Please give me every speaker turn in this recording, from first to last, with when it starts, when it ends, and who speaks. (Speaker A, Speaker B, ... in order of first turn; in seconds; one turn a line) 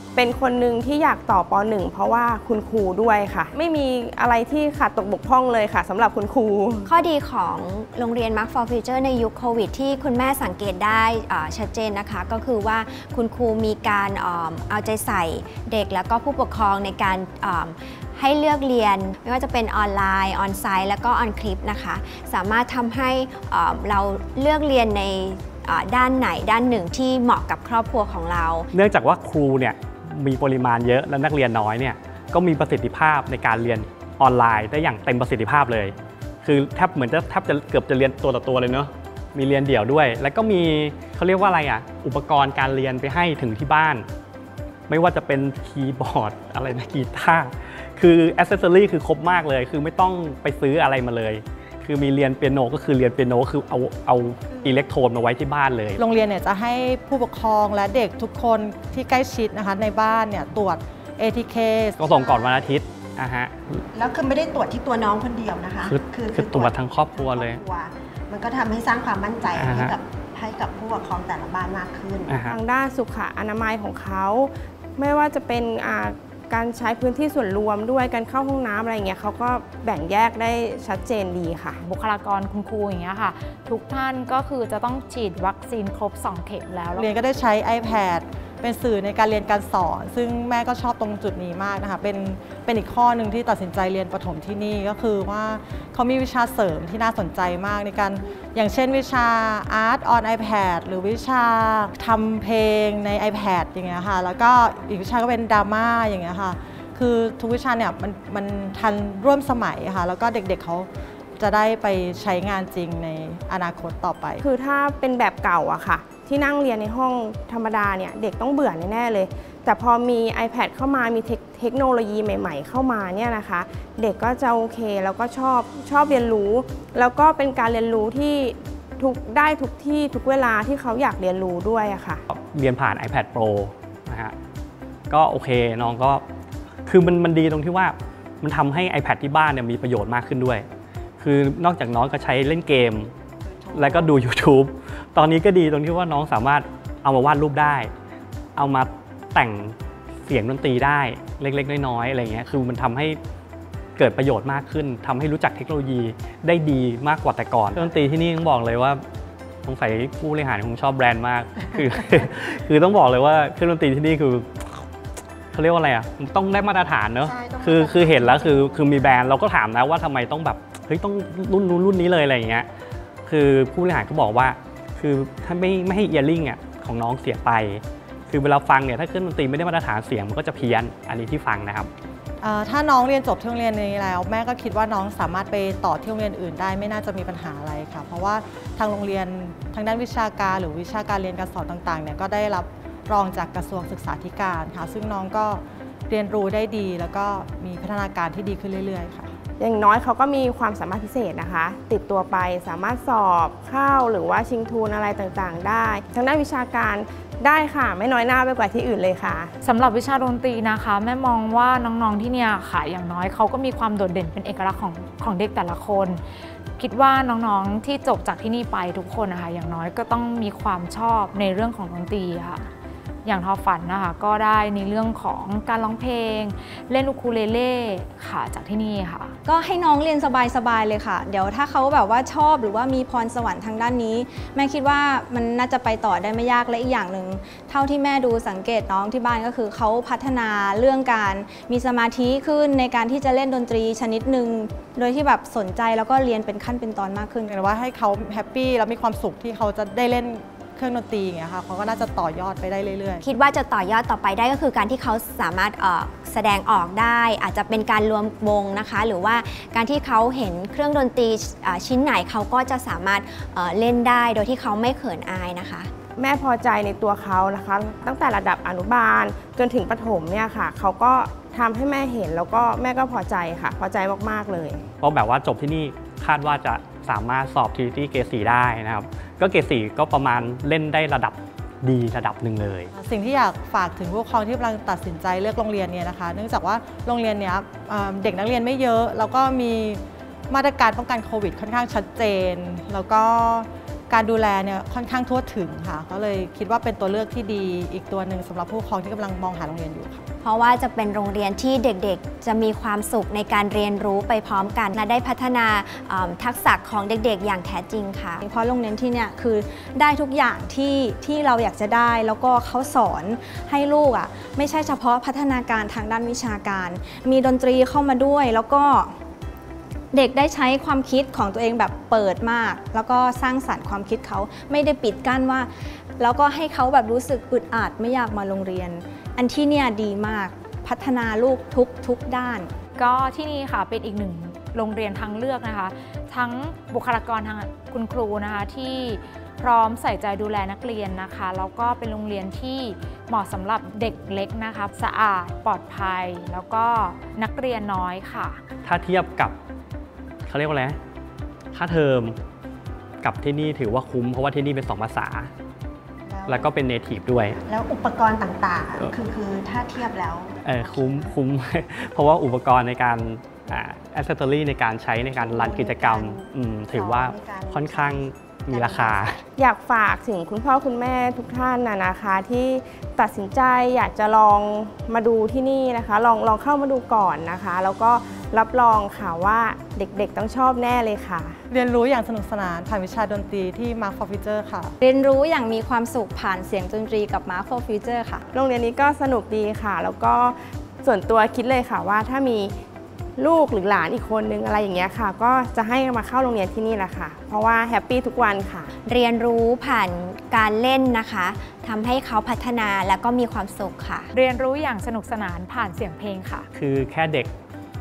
Speaker A: 0.1-6.9
Speaker B: 6.9-28.7
Speaker C: 28.7-44.1
Speaker C: 44.9-56.0
Speaker D: 56.0-62.6
Speaker C: 62.0-63.8
Speaker E: 63.9-72.5
Speaker C: 65.8-67.6
Speaker C: 69.5-70.0
Speaker C: 72.3-72.6
Speaker A: 72.5-81.8
Speaker F: 81.8-87.1
Speaker D: 87.0-114.5
Speaker A: 114.5-132.2
Speaker C: 132.3-134.3
Speaker C: 135.1-136.2
Speaker C: 136.9-140.7
Speaker C: 141.2-143.1
Speaker C: 143.7-147.9
Speaker C: 148.6-153.2
Speaker C: 154.0-159.0
Speaker C: 159.7-164.8
Speaker C: 165.5-172.7
Speaker E: 167.2-169.2
Speaker C: 173.3-181.9
Speaker D: 182.4-199.3
Speaker A: 199.6-209.5
Speaker F: 209.6-216.2
Speaker F: 216.8-222.7
Speaker F: 223.2-229.3
Speaker G: 229.4-247.6
Speaker D: 247.5-253.2
Speaker B: 253.2-265.9
Speaker A: 266.2-274.8
Speaker C: 275.0-282.9
Speaker D: 282.9-300.2
Speaker B: 300.4-308.4
Speaker G: 308.4-319.1
Speaker G: 320.1-332.7
Speaker F: 333.0-348.6
Speaker C: 348.9-349.6
Speaker C: 350.4-351.0
Speaker C: 351.7-352.4
Speaker C: 353.2-355.5
Speaker E: 356.3-356.7
Speaker C: 356.5-357.6
Speaker E: 357.7-361.3
Speaker C: 360.6-369.4
Speaker E: 365.4-369.4
Speaker A: 369.6-381.6
Speaker D: 381.7-385.0
Speaker G: 385.0-388.4
Speaker A: 388.6-392.7
Speaker A: 393.4-398.9
Speaker B: 399.0-404.3
Speaker F: 404.3-406.7
Speaker C: 406.8-407.5